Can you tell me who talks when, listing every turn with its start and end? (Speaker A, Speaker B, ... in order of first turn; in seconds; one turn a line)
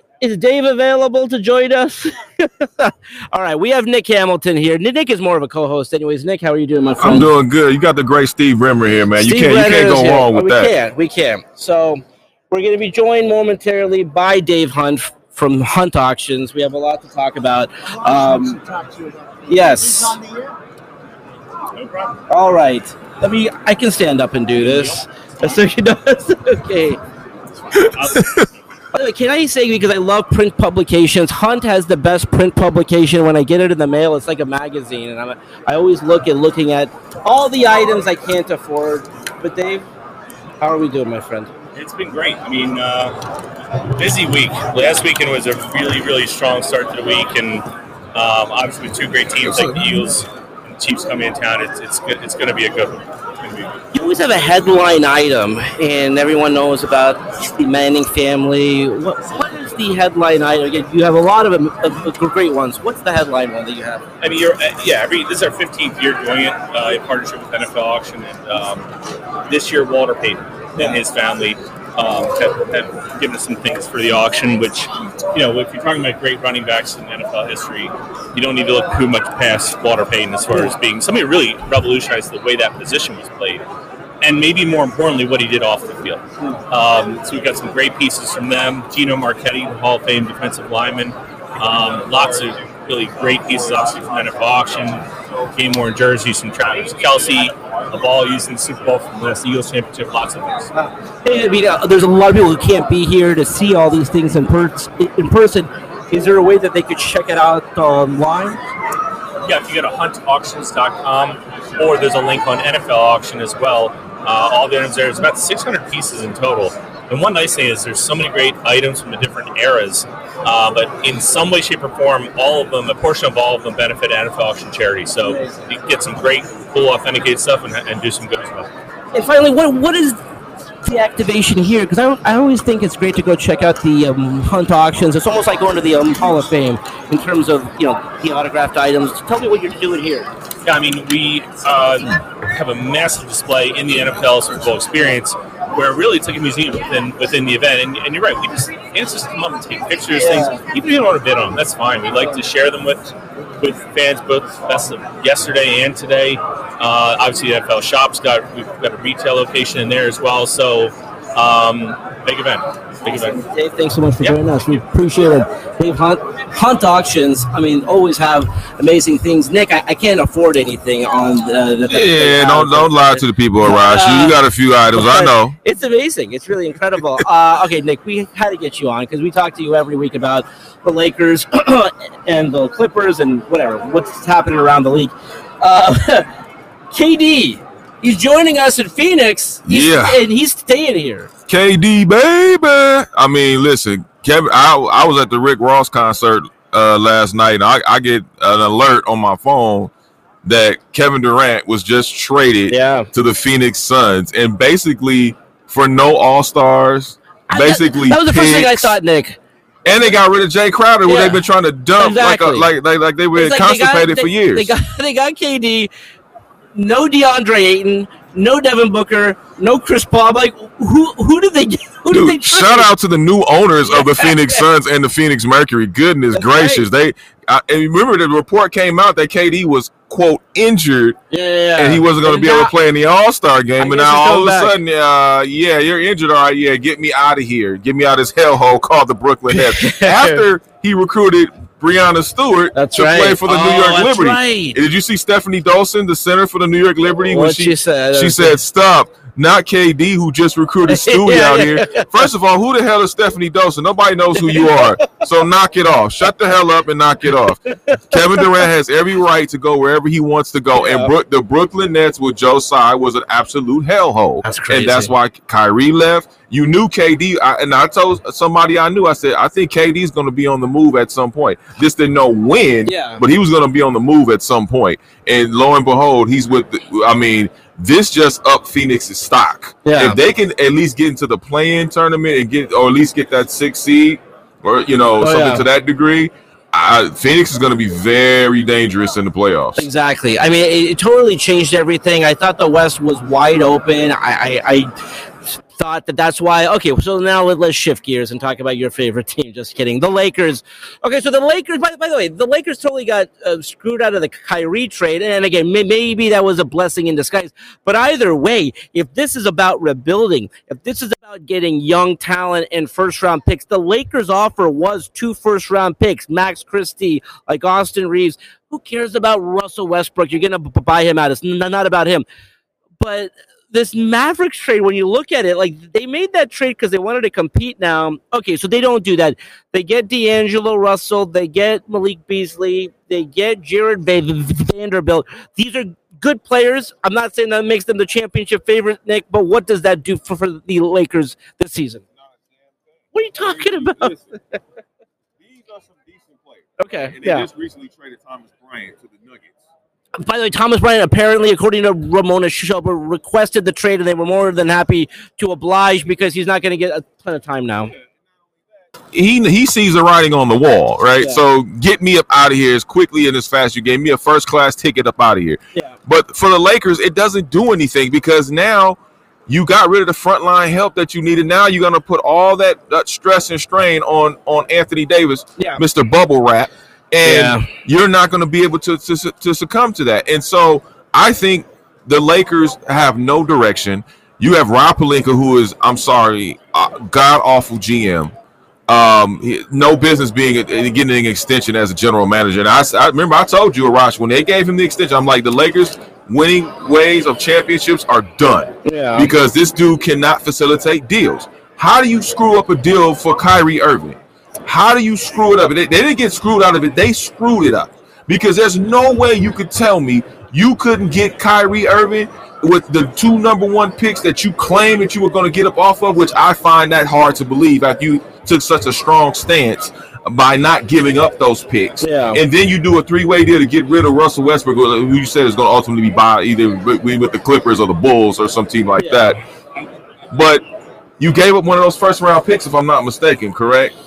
Speaker A: 0.2-7.3
Speaker B: 7.0-10.7
Speaker A: 9.2-18.7
Speaker A: 19.5-20.2
Speaker C: 21.8-22.1
Speaker A: 22.3-27.0
Speaker C: 24.6-25.0
Speaker C: 27.9-28.4
Speaker A: 28.9-39.9
Speaker A: 40.6-41.5
Speaker C: 41.7-43.2
Speaker C: 43.9-53.7
Speaker A: 53.9-64.0
Speaker C: 64.2-68.9
Speaker C: 69.5-83.6
Speaker A: 70.8-71.0
Speaker C: 84.2-100.7
Speaker A: 100.7-108.6
Speaker C: 109.4-128.7
Speaker A: 125.3-125.6
Speaker A: 129.1-130.2
Speaker A: 130.8-140.3
Speaker C: 140.6-163.4
Speaker A: 150.1-150.6
Speaker A: 163.1-174.4
Speaker B: 171.9-175.6
Speaker A: 174.9-186.3
Speaker A: 186.9-191.3
Speaker B: 189.7-190.2
Speaker B: 191.5-199.9
Speaker B: 200.4-208.9
Speaker A: 202.7-203.1
Speaker A: 207.5-209.4
Speaker B: 209.8-214.7
Speaker A: 211.0-211.4
Speaker A: 212.0-212.7
Speaker A: 213.3-215.9
Speaker A: 216.7-222.9
Speaker B: 222.1-231.2
Speaker A: 223.9-224.6
Speaker A: 226.3-226.8
Speaker A: 231.3-232.7
Speaker B: 231.8-289.9
Speaker A: 233.8-234.7
Speaker A: 239.5-240.4
Speaker A: 242.7-244.8
Speaker A: 247.3-248.5
Speaker A: 250.9-252.2
Speaker A: 254.4-255.1
Speaker A: 257.7-258.4
Speaker A: 260.8-261.1
Speaker A: 264.4-265.1
Speaker A: 272.9-273.2
Speaker A: 279.8-280.2
Speaker A: 285.2-285.6
Speaker A: 289.8-294.9
Speaker A: 295.6-322.2
Speaker A: 323.0-342.0
Speaker A: 343.1-344.2
Speaker B: 343.4-344.2
Speaker B: 345.4-349.5
Speaker A: 346.8-347.5
Speaker A: 350.2-357.9
Speaker B: 359.1-388.3
Speaker A: 375.6-375.8
Speaker A: 377.2-377.7
Speaker B: 388.9-429.4
Speaker A: 398.8-399.3
Speaker A: 422.0-422.4
Speaker A: 429.0-429.3
Speaker B: 430.3-430.6
Speaker B: 431.2-433.9